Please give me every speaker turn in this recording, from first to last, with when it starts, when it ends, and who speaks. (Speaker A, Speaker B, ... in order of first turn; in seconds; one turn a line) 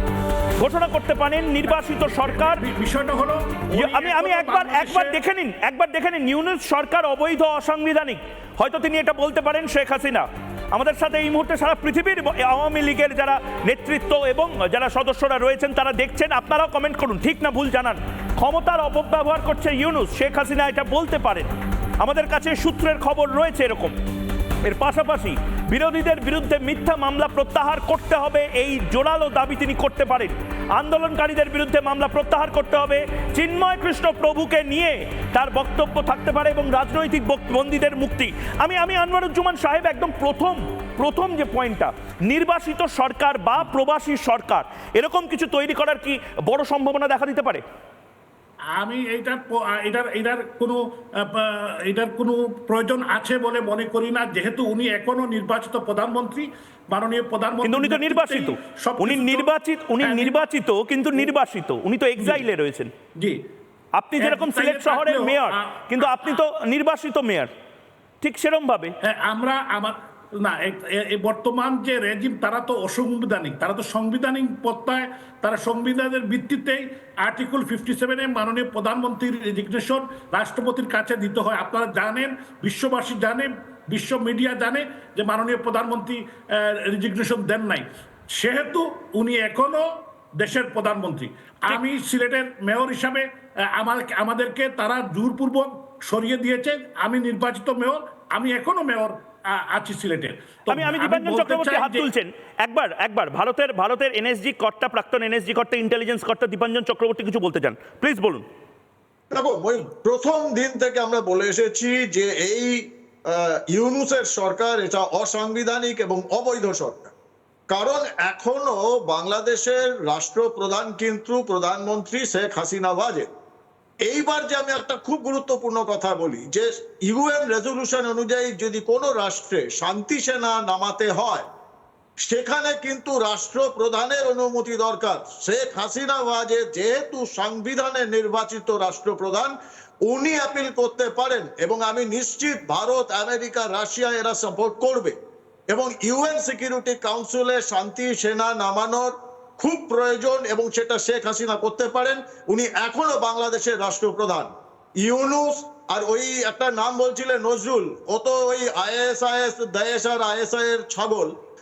Speaker A: 0.6-2.6
Speaker B: 1.8-5.2
Speaker A: 3.7-23.9
Speaker A: 24.6-47.6
Speaker B: 48.8-60.4
Speaker A: 57.6-62.9
Speaker A: 64.0-67.5
Speaker B: 64.2-66.4
Speaker A: 68.2-68.9
Speaker B: 69.0-89.9
Speaker B: 90.4-102.1
Speaker A: 100.7-108.4
Speaker C: 109.3-117.1
Speaker C: 117.7-123.3
Speaker C: 124.0-131.5
Speaker C: 132.2-139.5
Speaker C: 140.1-145.1
Speaker C: 145.7-161.3